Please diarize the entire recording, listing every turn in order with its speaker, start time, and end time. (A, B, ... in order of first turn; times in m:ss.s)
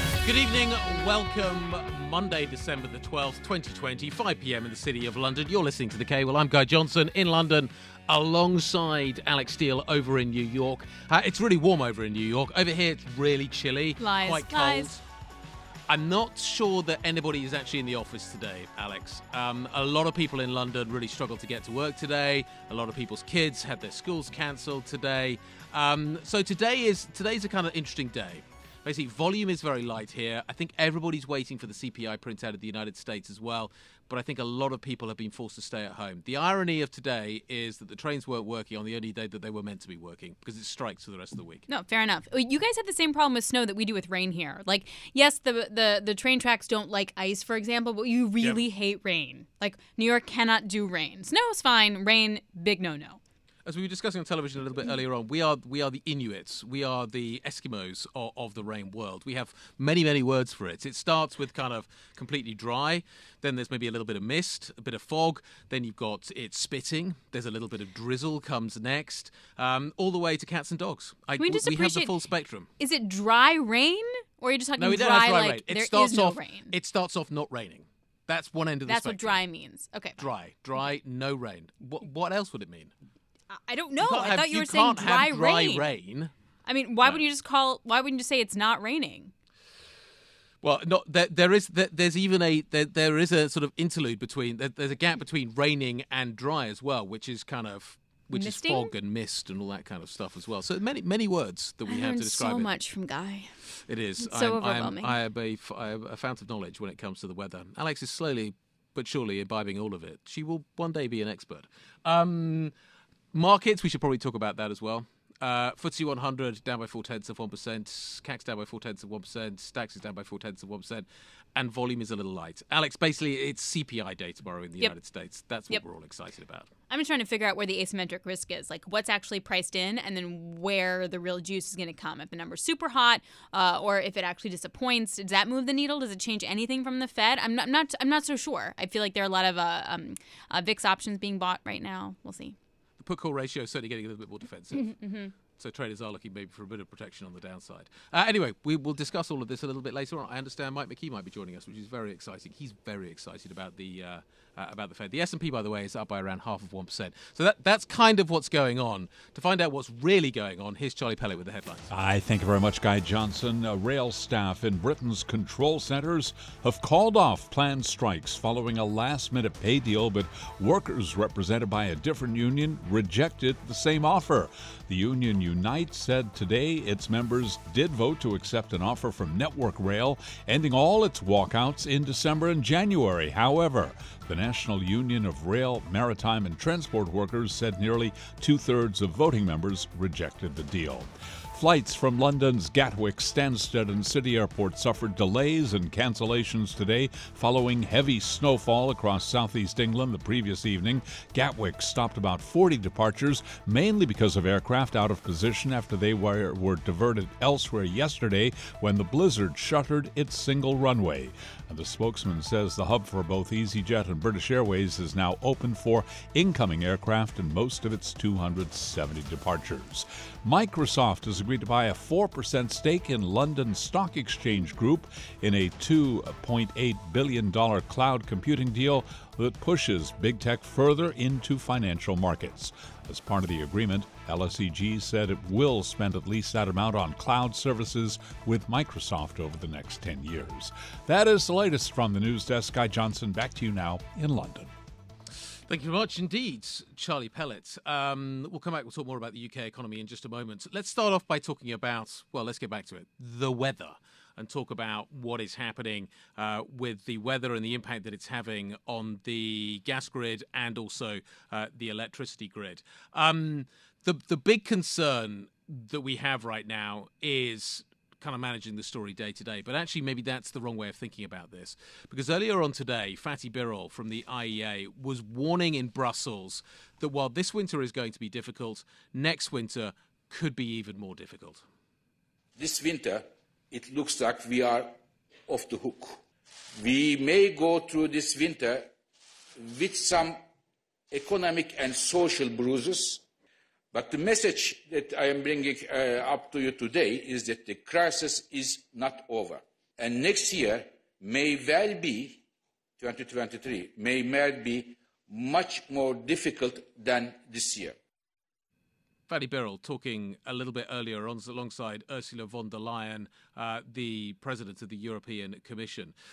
0:00.2-0:15.0 A
0:14.0-0:14.9 B
0:15.9-0:41.6 A
0:41.7-0:53.2 B
0:53.7-1:12.7 A
1:11.4-1:12.2 B
1:12.8-1:16.7 B
1:14.8-1:19.4 A
1:18.9-1:20.2 B
1:20.2-1:22.9 A
1:23.5-1:25.8 B
1:24.0-1:26.3 A
1:26.7-1:29.3 B
1:30.6-1:42.7 A
1:38.3-1:38.9 B
1:41.9-1:43.6 B
1:43.9-1:52.7 A
1:44.2-1:45.2 B
1:53.3-2:06.7 A
2:06.9-2:22.6 B
2:23.0-2:41.9 A
2:24.7-2:25.3 B
2:41.9-4:04.7 C
4:05.7-4:41.6 A
4:42.6-4:46.2 D
4:46.8-4:48.9 D
4:49.6-4:50.4 D
4:51.1-4:53.2 D
4:53.9-5:02.4 D
5:03.0-5:08.0 D
5:09.3-5:16.1 A